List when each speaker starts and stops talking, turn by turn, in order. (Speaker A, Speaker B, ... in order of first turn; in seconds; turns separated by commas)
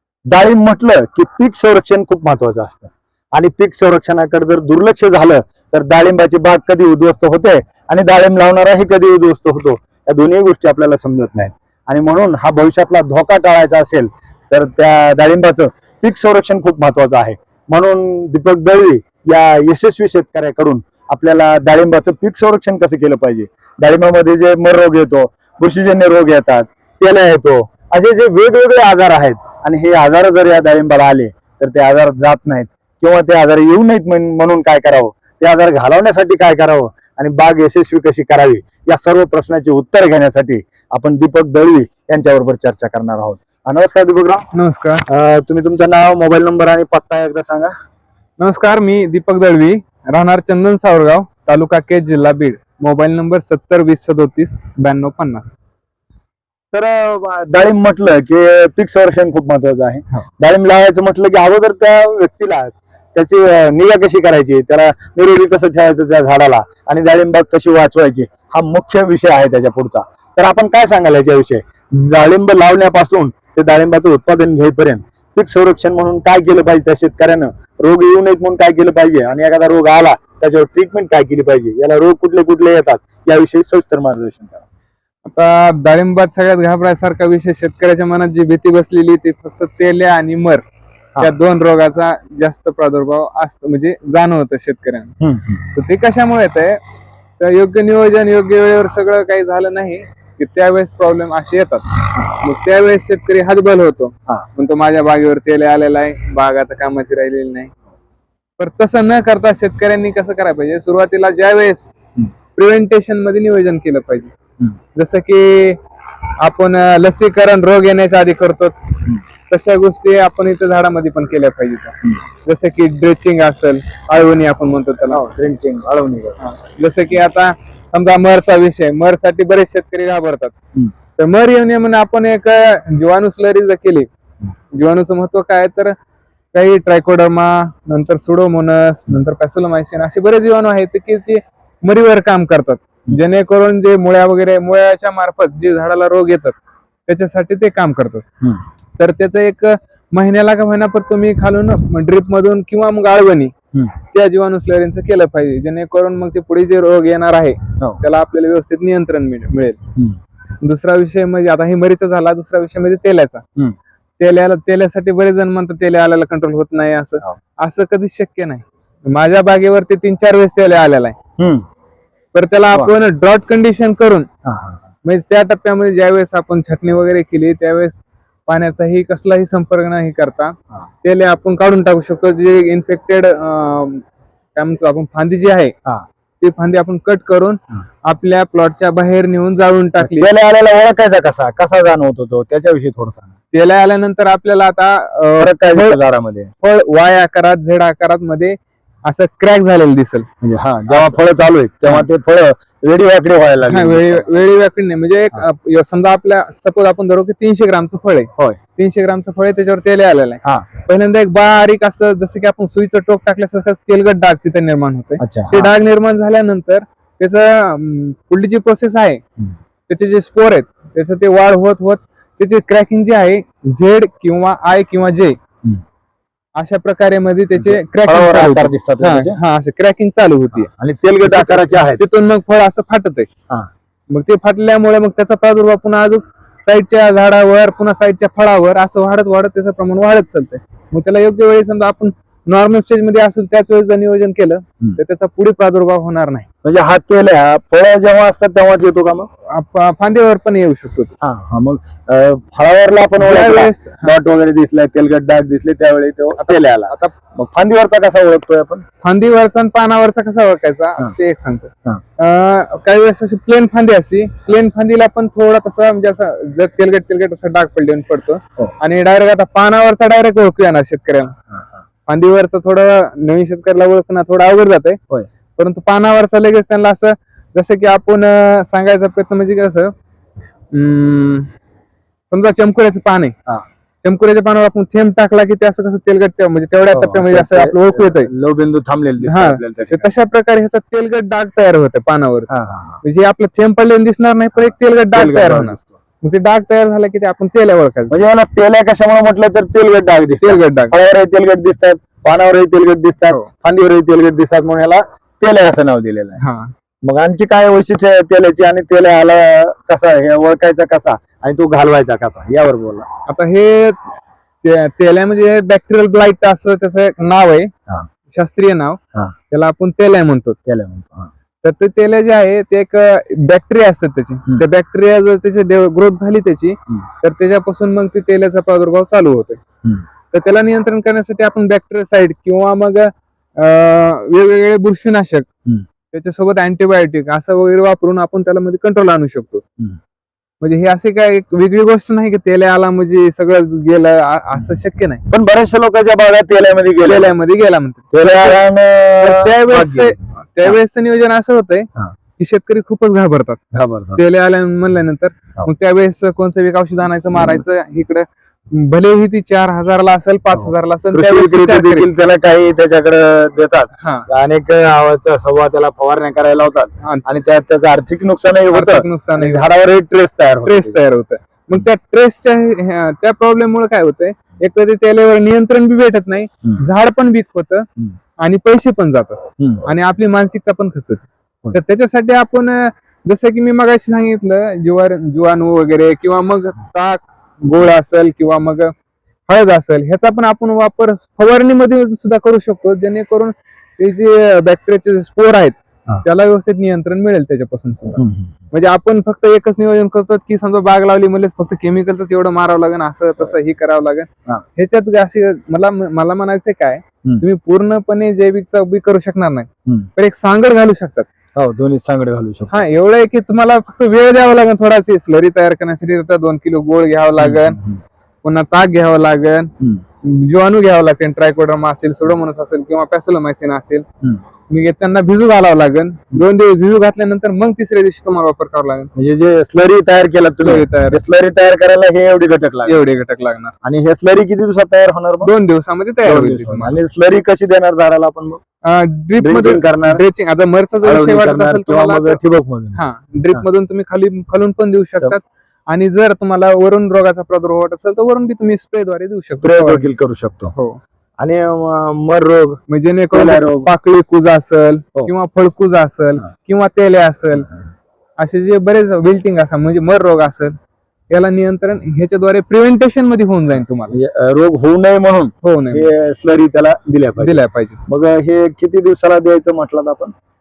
Speaker A: 0.3-44.5, Speaker B: 44.5-45.0, Speaker A: 45.1-47.7, Speaker B: 48.4-55.5, Speaker A: 56.7-84.6, Speaker B: 85.2-90.6, Speaker B: 91.2-95.1, Speaker A: 95.2-95.7, Speaker B: 95.7-96.8, Speaker B: 97.4-107.7, Speaker A: 102.1-102.4, Speaker B: 108.6-111.9, Speaker B: 112.5-114.3, Speaker B: 114.9-115.8, Speaker B: 116.4-118.8, Speaker B: 119.5-125.2, Speaker A: 125.0-126.4, Speaker B: 126.4-130.5, Speaker B: 131.2-134.1, Speaker B: 134.8-135.9, Speaker B: 136.5-146.6, Speaker B: 147.1-148.2, Speaker B: 149.0-153.5, Speaker B: 154.1-159.8, Speaker B: 160.6-163.4, Speaker B: 164.2-171.2, Speaker A: 171.4-171.6, Speaker B: 172.3-174.3, Speaker A: 174.4-174.9, Speaker B: 175.0-184.0, Speaker B: 184.5-185.7, Speaker B: 186.4-190.3, Speaker A: 190.0-193.3, Speaker B: 193.5-196.0, Speaker A: 195.4-196.5, Speaker B: 196.6-200.2, Speaker A: 200.4-204.4, Speaker B: 200.9-201.2, Speaker B: 203.7-219.2, Speaker A: 215.2-215.7, Speaker B: 219.9-225.3, Speaker B: 226.6-230.7, Speaker A: 227.5-229.4, Speaker A: 230.5-232.0, Speaker B: 231.2-233.3, Speaker B: 234.1-246.5, Speaker A: 246.6-249.3, Speaker B: 249.5-251.1, Speaker A: 251.2-258.8, Speaker B: 253.2-254.1, Speaker B: 256.4-257.1, Speaker B: 259.0-271.3, Speaker A: 271.4-271.9, Speaker B: 272.1-275.0, Speaker B: 275.6-279.9, Speaker B: 280.7-281.5, Speaker B: 282.3-283.3, Speaker B: 284.0-288.3, Speaker A: 286.9-290.1, Speaker B: 289.2-292.5, Speaker A: 292.5-293.0, Speaker B: 293.0-298.1, Speaker A: 294.6-295.9, Speaker A: 298.1-306.4, Speaker B: 300.4-300.9, Speaker B: 306.4-306.7, Speaker A: 307.0-313.1, Speaker B: 313.2-314.1, Speaker B: 314.6-317.7, Speaker B: 318.3-319.0, Speaker B: 319.5-320.6, Speaker A: 320.7-321.3, Speaker B: 321.6-329.6, Speaker B: 330.3-335.5, Speaker B: 336.1-339.6, Speaker B: 340.6-345.2, Speaker A: 344.6-347.3, Speaker B: 347.0-348.6, Speaker A: 348.1-350.8, Speaker B: 349.2-353.6, Speaker A: 353.7-354.2, Speaker B: 354.1-362.1, Speaker A: 357.3-357.6, Speaker A: 360.5-371.0, Speaker B: 364.0-364.2, Speaker B: 368.7-369.7, Speaker B: 370.6-377.9, Speaker B: 378.4-388.9, Speaker A: 379.6-379.9, Speaker B: 389.5-398.2, Speaker A: 398.1-398.6, Speaker B: 398.7-411.3, Speaker A: 411.6-412.8, Speaker B: 412.7-417.8, Speaker A: 417.4-418.0, Speaker B: 418.4-419.7, Speaker B: 420.2-424.0, Speaker B: 424.7-429.1, Speaker A: 429.1-433.1, Speaker B: 430.6-431.2, Speaker B: 432.9-433.7, Speaker A: 433.8-435.5, Speaker B: 435.4-437.0, Speaker A: 436.2-438.6, Speaker B: 438.8-442.4, Speaker A: 439.4-440.2, Speaker A: 441.0-443.6, Speaker B: 442.9-450.1, Speaker A: 449.5-450.7, Speaker B: 450.7-451.0, Speaker A: 451.4-452.8, Speaker B: 452.9-457.7, Speaker A: 453.3-453.9, Speaker B: 458.4-460.7, Speaker B: 461.3-464.1, Speaker A: 463.7-470.3, Speaker B: 465.6-466.1, Speaker B: 467.4-468.0